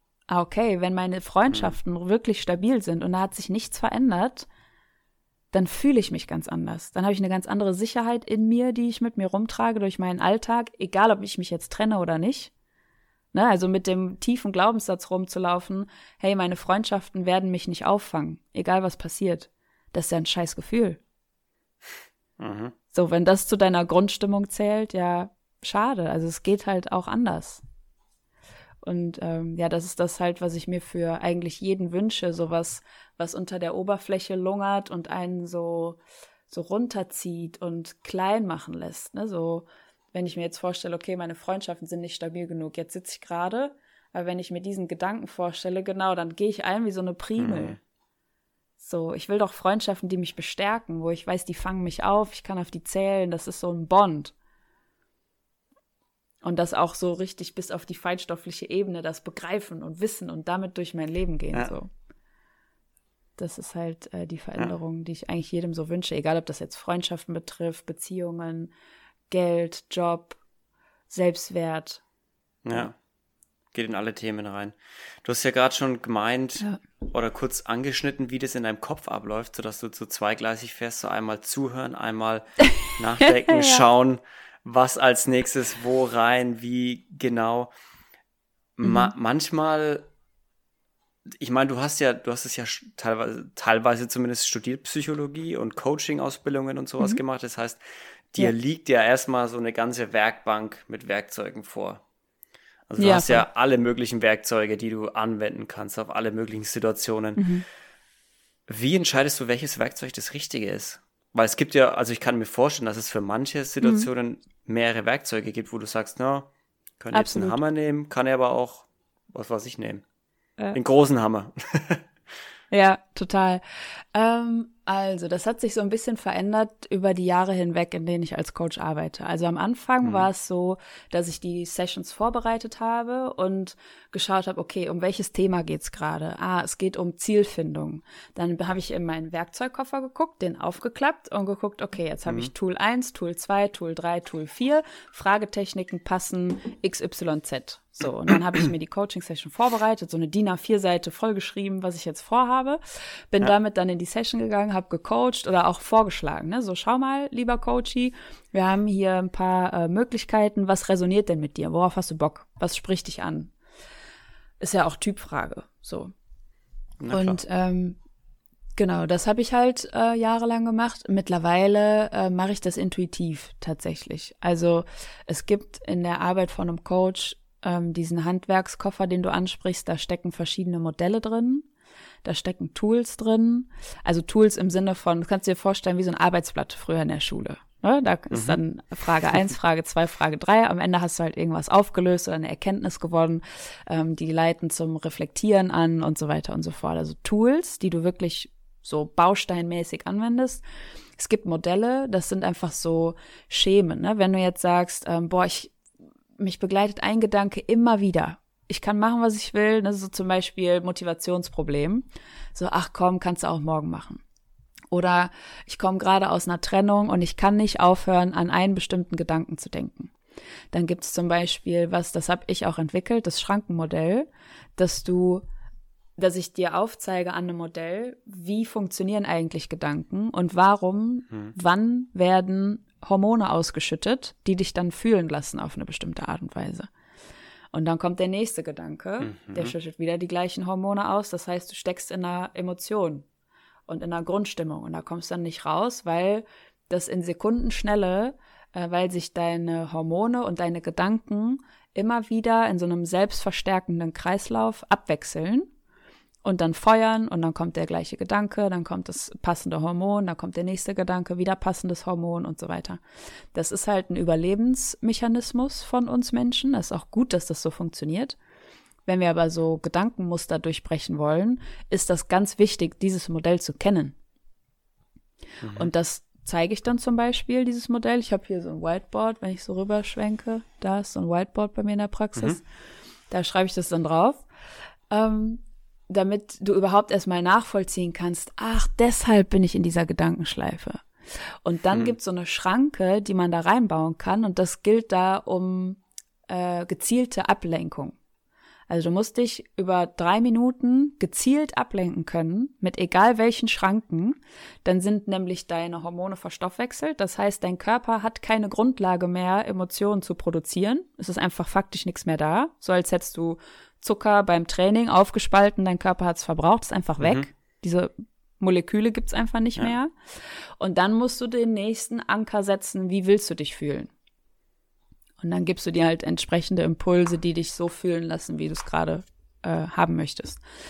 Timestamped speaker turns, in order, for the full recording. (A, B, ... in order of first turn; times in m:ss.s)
0:00.3-0:04.5 A
0:05.5-0:12.5 A
0:13.3-0:21.0 A
0:22.4-0:22.7 B
0:22.9-0:27.6 A
0:28.8-0:47.8 A
0:47.4-0:47.8 B
0:48.8-0:54.3 A
0:56.4-1:01.9 A
1:03.4-1:08.7 A
1:09.3-1:10.4 A
1:11.1-1:12.0 A
1:12.6-1:12.9 B
1:13.7-1:27.7 B
1:23.2-1:23.8 A
1:28.8-1:30.1 B
1:28.8-1:29.1 A
1:31.4-1:42.0 B
1:42.9-1:47.5 B
1:43.0-1:43.4 A
1:47.4-1:47.6 A
1:48.7-1:56.5 B
1:53.8-1:54.1 A
1:57.0-2:00.0 B
1:57.1-1:57.6 A
2:00.7-2:02.1 B
2:02.7-2:03.6 A
2:04.1-2:43.5 A
2:44.6-2:46.1 A
2:47.0-2:47.4 B
2:47.1-2:48.0 A
2:48.8-3:01.6 A
3:02.2-3:20.6 A
3:08.3-3:08.6 B
3:21.2-3:25.7 A
3:26.4-3:34.2 A
3:34.9-3:40.1 A
3:40.7-3:45.4 A
3:46.2-3:56.9 A
3:57.7-4:03.2 A
3:59.2-3:59.7 B
4:03.9-4:15.7 A
4:16.4-4:23.0 A
4:23.5-4:28.4 A
4:29.0-4:34.1 A
4:35.6-4:35.9 B
4:35.7-4:42.6 A
4:43.3-4:44.4 A
4:45.1-4:51.0 A
4:51.6-4:58.2 A
4:58.9-5:20.1 A
5:17.2-5:17.4 B
5:20.8-5:24.1 A
5:25.4-5:30.6 A